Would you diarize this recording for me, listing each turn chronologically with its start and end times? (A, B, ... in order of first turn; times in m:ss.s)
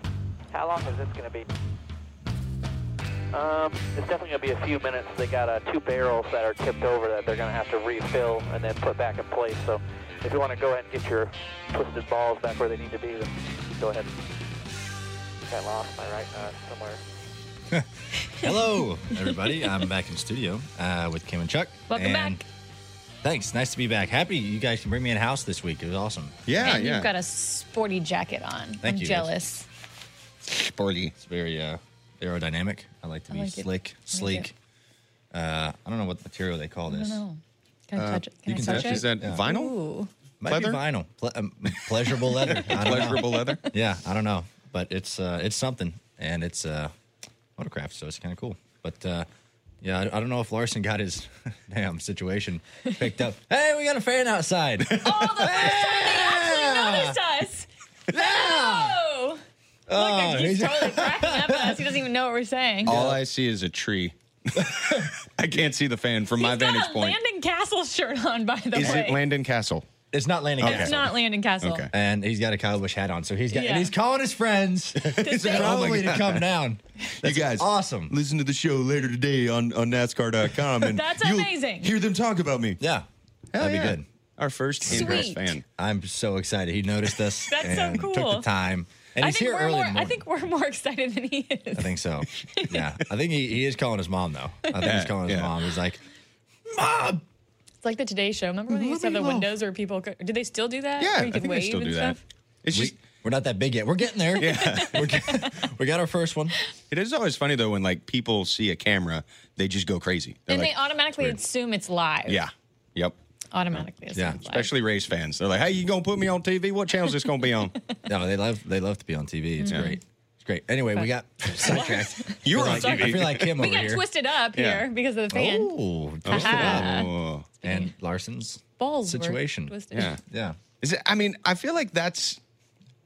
0:00.5-0:01.5 A
0:03.3-0:14.1 A
0:15.5-0:17.0 A
0:17.7-0:22.4 B
0:19.2-0:19.7 C
0:21.9-0:22.4 C
0:23.2-0:26.5 B
0:26.4-0:27.1 D
0:26.6-0:29.7 C
0:28.8-0:29.3 B
0:30.4-0:31.1 D
0:31.2-0:34.5 B
0:33.3-0:34.5 C
0:35.3-0:37.2 B
0:36.9-0:40.1 C
0:38.0-0:39.7 D
0:38.4-0:39.4 B
0:40.4-0:46.9 B
0:40.5-0:40.8 D
0:42.2-0:43.6 D
0:42.6-0:43.5 C
0:47.6-0:49.3 B
0:49.8-0:57.2 B
0:54.9-0:59.4 C
0:58.1-0:59.0 B
0:59.9-1:01.8 B
0:59.9-1:03.0 C
1:02.8-1:07.2 D
1:02.8-1:03.2 B
1:04.6-1:05.1 B
1:06.4-1:09.2 C
1:08.7-1:09.8 D
1:10.1-1:11.1 B
1:10.6-1:11.9 C
1:10.6-1:11.9 D
1:11.9-1:18.2 B
1:13.5-1:13.9 C
1:15.0-1:16.1 C
1:15.0-1:16.4 D
1:17.2-1:22.8 D
1:20.8-1:21.9 C
1:22.8-1:24.0 B
1:23.5-1:25.6 D
1:24.8-1:30.2 B
1:24.9-1:25.6 C
1:27.5-1:28.5 C
1:29.2-1:32.8 C
1:31.7-1:36.0 B
1:34.8-1:35.5 D
1:36.6-1:37.2 B
1:37.8-1:42.2 C
1:38.7-1:39.5 B
1:41.0-1:43.0 D
1:42.7-1:46.6 B
1:44.4-1:45.0 D
1:44.4-1:45.5 C
1:46.9-1:50.7 D
1:50.5-1:52.4 C
1:52.3-1:53.2 D
1:53.5-1:54.7 C
1:54.1-1:54.4 B
1:54.4-1:57.8 D
1:58.1-2:04.0 B
1:59.6-2:00.0 C
2:00.9-2:05.7 C
2:02.4-2:03.5 D
2:04.5-2:04.9 D
2:05.3-2:07.1 B
2:06.2-2:07.9 C
2:06.2-2:07.5 D
2:07.6-2:10.6 B
2:08.8-2:10.2 C
2:10.8-2:12.4 D